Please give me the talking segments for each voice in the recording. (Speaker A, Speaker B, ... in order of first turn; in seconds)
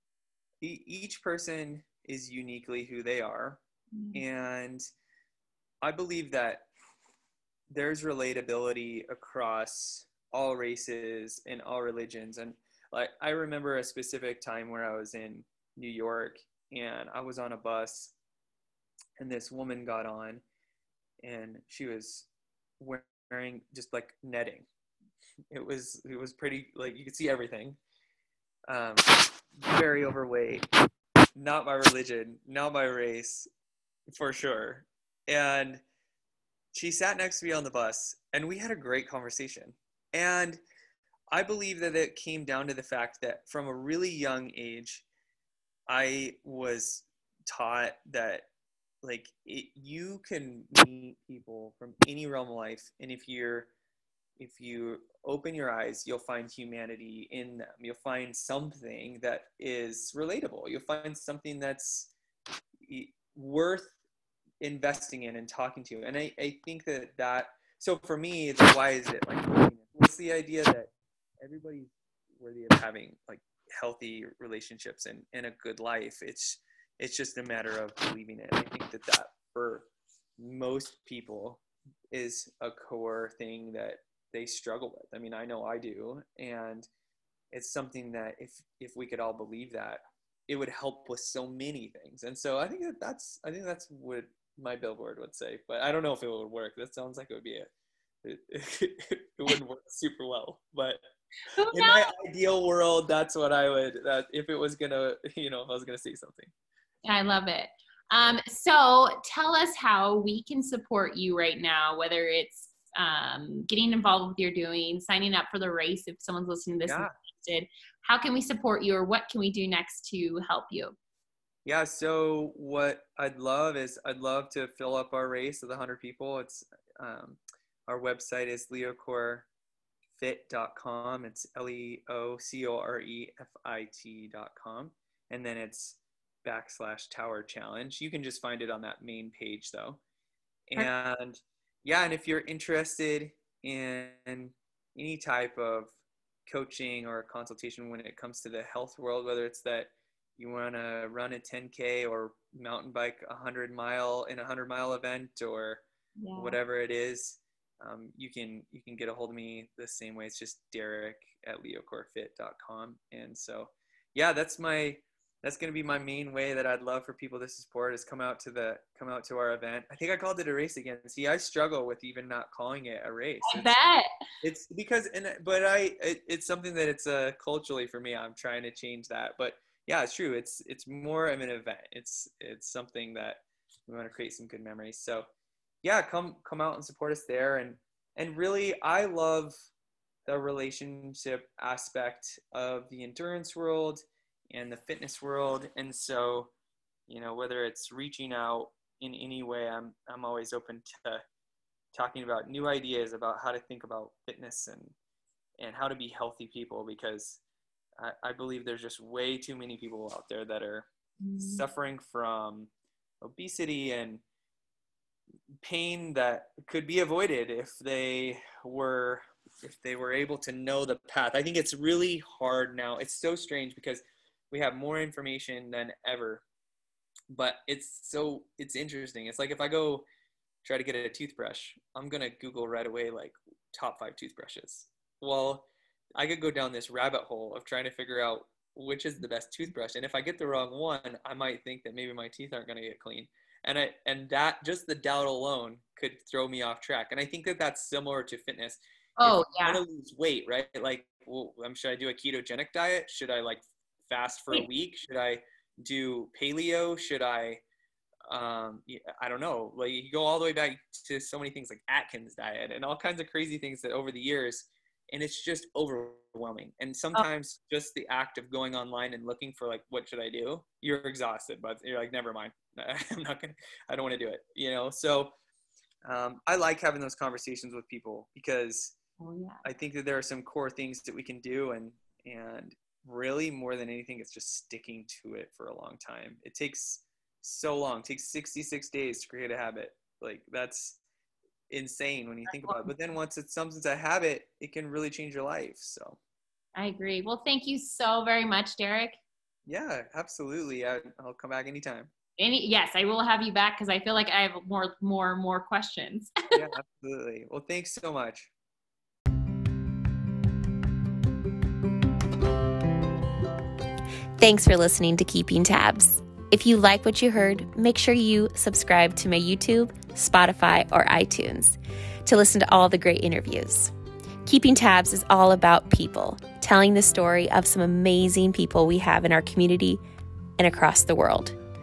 Speaker A: 0.6-3.6, 4.1-4.9, 5.8-6.7, 7.7-18.1, 19.2-20.4, 21.2-22.3, 22.8-24.7, 25.5-27.8, 28.7-30.7, 31.4-33.5, 34.1-35.8, 36.7-40.6, 41.3-45.0, 45.9-48.5, 49.0-53.7, 54.4-62.1, 62.9-63.9, 64.6-79.9, 80.4-86.9, 87.5-97.7, 98.2-101.0, 101.7-106.5, 116.9-117.1, 121.7-129.5, 130.2-140.0, 140.7-155.8, 156.3-173.8, 174.4-185.3, 185.8-189.7, 190.3-196.5, 197.1-201.2, 201.9-204.9, 205.6-207.4, 208.0-212.7, 213.2-214.2, 215.6-226.4, 227.3-230.1, 230.6-257.6, 258.3-275.3, 276.1-279.0, 279.6-291.0, 291.7-296.2, 299.7-302.1, 306.5-308.5
Speaker B: 3.9-4.2, 101.5-102.1, 107.0-121.0, 156.2-156.6, 173.4-174.1, 211.2-211.7, 249.2-249.8, 279.2-279.6, 292.5-292.9, 296.8-299.2, 302.4-306.6
Speaker C: 314.4-323.9, 324.4-330.0, 330.6-331.6